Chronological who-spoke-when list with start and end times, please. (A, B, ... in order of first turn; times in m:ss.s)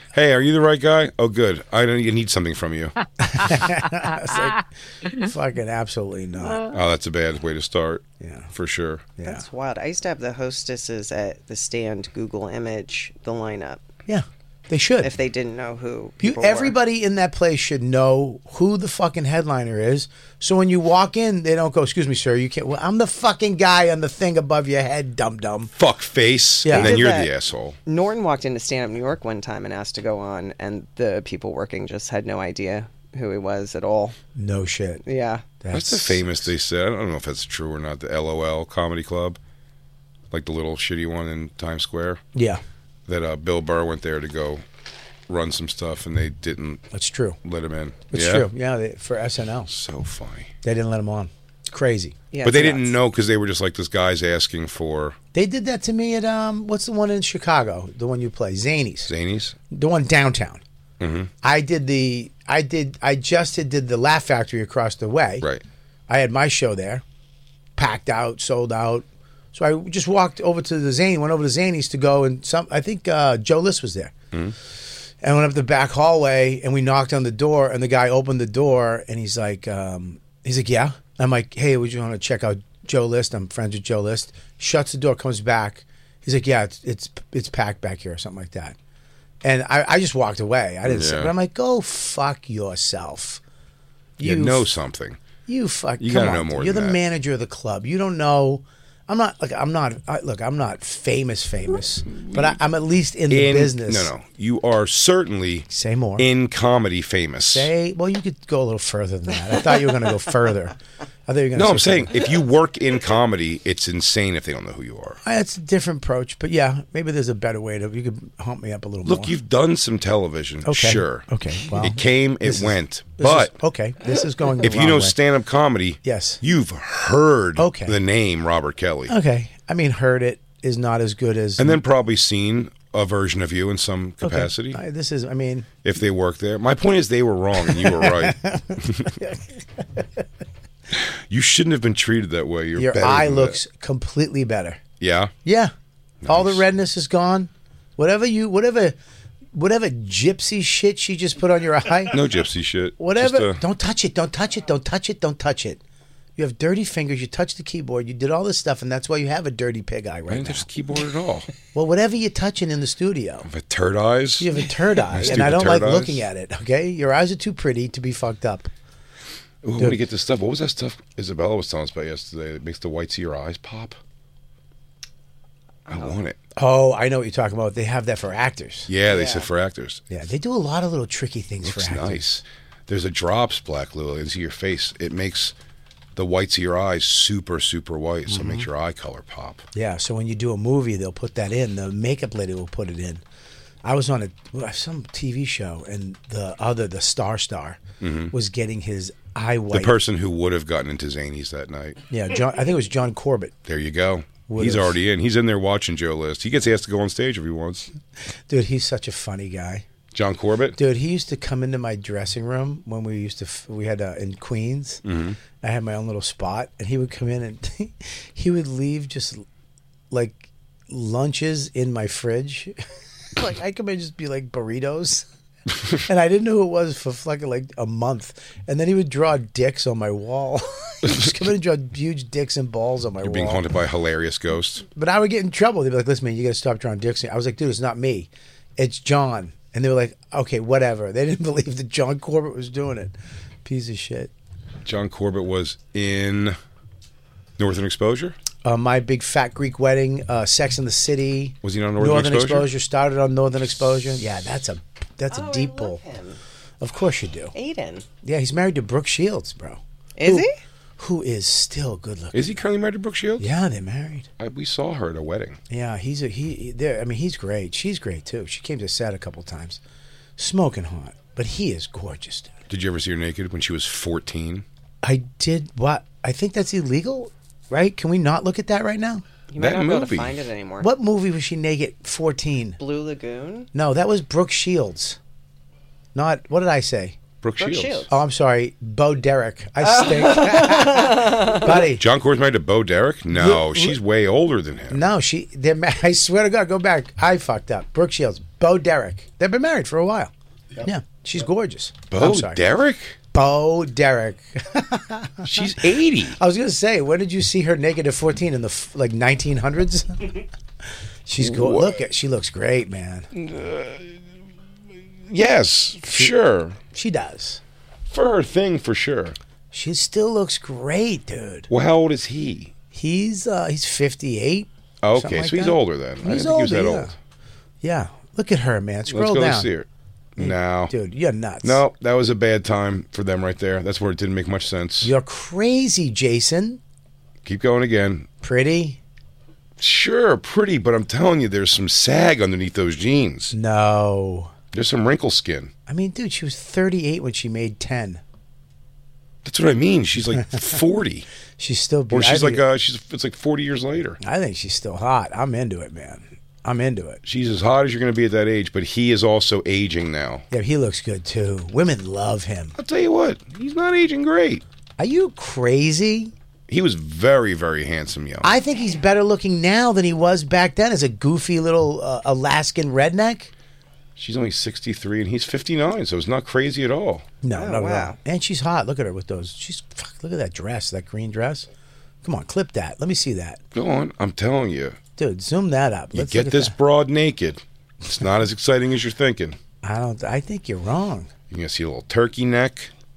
0:00.1-0:02.9 A
0:03.2-0:06.7 B
0:06.7-0:09.1 A
0:08.2-0:08.5 B
0:09.2-0:13.8 C
0:14.1-0:15.1 B
0:15.0-0:16.8 C
0:16.2-0:25.7 B
0:25.7-0:27.8 A
0:26.6-0:27.0 B
0:26.7-0:27.3 C
0:27.8-0:34.2 C
0:34.3-0:35.0 B
0:35.0-0:35.5 C
0:35.6-0:36.5 B
0:35.7-0:39.4 A
0:40.3-0:42.2 A
0:42.3-0:42.6 B
0:43.1-0:44.6 A
0:45.3-0:46.8 A
0:46.9-0:47.4 B
0:47.4-0:48.5 A
0:48.1-0:49.7 B
0:49.7-0:50.5 A
0:50.6-0:52.2 B
0:52.3-0:52.9 C
0:52.4-0:55.2 A
0:55.3-0:59.1 B
0:59.1-0:59.6 A
0:59.7-1:00.6 B
1:01.0-1:01.3 A
1:01.4-1:05.5 B
1:06.1-1:07.0 B
1:07.8-1:14.1 B
1:15.2-1:28.8 B
1:29.4-1:33.4 B
1:30.8-1:31.3 A
1:34.2-1:34.7 B
1:34.2-1:35.2 A
1:35.4-1:44.1 B
1:36.0-1:37.0 A
1:42.1-1:42.6 A
1:43.3-1:47.7 A
1:45.7-1:46.2 B
1:47.4-1:50.7 B
1:51.3-1:52.1 B
1:51.5-1:55.2 A
1:55.2-1:59.3 B
1:59.0-2:03.6 A
2:00.6-2:05.2 B
2:04.6-2:09.1 A
2:06.0-2:06.4 B
2:07.6-2:08.0 B
2:09.1-2:11.8 B
2:11.6-2:14.8 A
2:14.2-2:15.7 B
2:15.8-2:19.1 A
2:17.6-2:19.4 B
2:20.9-2:23.6 A
2:22.8-2:24.8 B
2:25.0-2:25.3 A
2:25.4-2:25.7 B
2:26.2-2:26.6 A
2:26.3-2:29.0 B
2:29.5-2:32.2 B
2:32.1-2:33.6 A
2:33.0-2:35.8 B
2:36.4-2:40.7 B
2:40.3-2:41.5 A
2:41.7-2:43.5 B
2:43.4-2:44.5 A
2:44.4-2:48.7 B
2:45.1-2:46.2 A
2:49.6-2:54.0 A
2:55.9-2:56.4 A
2:56.6-2:58.9 B
2:58.9-3:00.0 A
2:59.0-2:59.5 C
3:00.1-3:02.2 B
3:01.6-3:05.5 A
3:06.2-3:09.6 A
3:08.3-3:08.7 B
3:09.7-3:13.2 B
3:13.8-3:17.8 B
3:18.0-3:18.3 A
3:18.3-3:19.9 B
3:19.7-3:22.0 A
3:22.1-3:23.5 B
3:23.6-3:27.9 A
3:24.5-3:25.0 B
3:28.5-3:29.8 B
3:30.1-3:30.8 A
3:30.8-3:35.0 B
3:35.0-3:35.4 A
3:35.6-3:39.4 B
3:40.1-3:42.7 B
3:43.3-3:45.2 B
3:46.0-3:53.6 B
3:53.2-3:54.8 A
3:54.9-4:04.3 B
4:04.8-4:06.6 A
4:07.6-4:08.4 A
4:08.6-4:16.0 B
4:11.6-4:12.7 A
4:15.3-4:16.4 C
4:16.8-4:17.5 B
4:17.5-4:18.0 C
4:18.2-4:22.6 B
4:20.2-4:20.5 C
4:22.3-4:23.5 A
4:23.4-4:24.3 B
4:24.4-4:25.6 A
4:25.7-4:29.8 B
4:30.4-4:32.5 B
4:32.7-4:34.6 A
4:35.0-4:39.2 B
4:39.5-4:40.9 C
4:39.6-4:40.4 A
4:40.8-4:42.8 B
4:42.8-4:43.7 C
4:43.7-4:45.2 B
4:46.1-4:47.2 B
4:47.4-4:48.1 A
4:47.6-4:48.1 C
4:48.1-4:52.0 B
4:49.8-4:51.7 C
4:51.7-4:55.0 A
4:53.3-4:54.0 B
4:54.9-5:02.6 B
5:02.1-5:03.2 A
5:03.3-5:05.7 B
5:05.4-5:06.4 A
5:06.3-5:10.4 B
5:11.2-5:13.3 B
5:11.4-5:12.0 A
5:13.3-5:14.2 A
5:15.3-5:16.8 A
5:16.9-5:17.6 B
5:18.1-5:19.4 A
5:19.7-5:21.7 B
5:21.7-5:22.7 A
5:22.9-5:27.1 B
5:25.0-5:27.2 A
5:27.8-5:29.7 B
5:29.1-5:30.9 A
5:30.4-5:31.8 B
5:31.6-5:35.1 A
5:35.0-5:36.8 B
5:37.4-5:38.3 A
5:38.4-5:39.0 B
5:39.8-5:43.5 A
5:43.5-5:44.5 B
5:44.7-5:45.7 A
5:45.9-5:48.2 B
5:49.4-5:51.3 A
5:51.6-5:52.6 B
5:52.1-5:54.2 A
5:54.2-5:57.2 B
5:57.2-6:00.4 A
6:00.5-6:02.8 B
6:02.8-6:04.6 A
6:05.0-6:06.3 B
6:06.7-6:08.5 A
6:08.4-6:13.5 B
6:14.2-6:17.2 A
6:17.4-6:21.7 B
6:17.5-6:18.2 C
6:22.2-6:23.6 B
6:23.7-6:25.0 A
6:25.2-6:26.7 B
6:26.1-6:29.6 A
6:29.8-6:31.3 B
6:31.5-6:32.9 A